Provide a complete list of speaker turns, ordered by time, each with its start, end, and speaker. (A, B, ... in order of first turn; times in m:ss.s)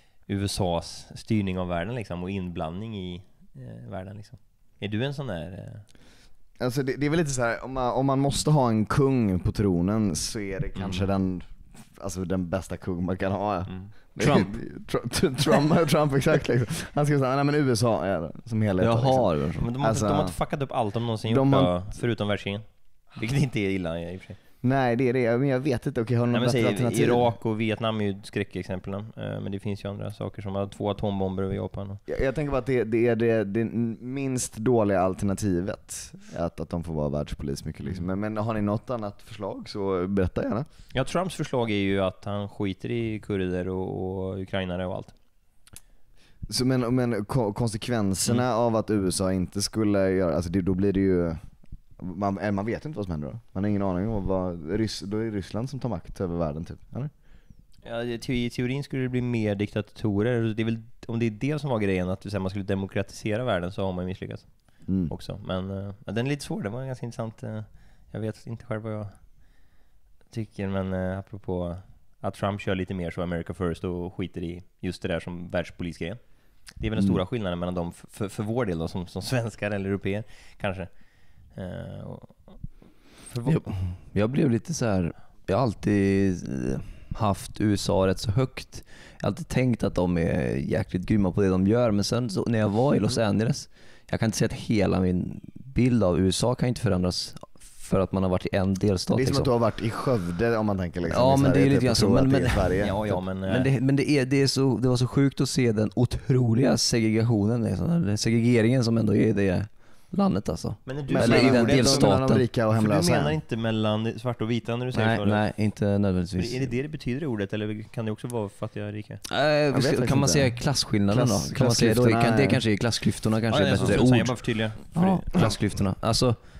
0:00.2-0:05.8 A
0:06.6-0:20.4 B
0:10.8-0:11.0 A
0:14.2-0:14.5 C
0:18.8-0:19.7 C
0:19.6-0:24.4 A
0:21.2-0:21.8 B
0:24.6-0:27.3 B
0:26.3-0:32.0 A
0:32.1-0:40.6 B
0:40.9-0:45.1 A
0:46.5-0:51.4 B
0:52.0-0:57.1 B
0:57.8-1:09.2 A
1:04.9-1:05.1 B
1:10.3-1:22.6 A
1:23.2-1:23.7 A
1:23.4-1:39.5 C
1:39.1-1:43.0 B
1:41.1-1:52.4 C
1:42.8-1:43.7 A
1:50.8-1:52.2 A
1:51.1-1:53.4 B
1:52.7-1:55.4 A
1:54.9-1:56.7 C
1:56.4-1:59.2 A
1:59.3-2:06.4 C
1:59.7-2:00.5 B
2:01.1-2:02.6 B
2:03.5-2:05.5 A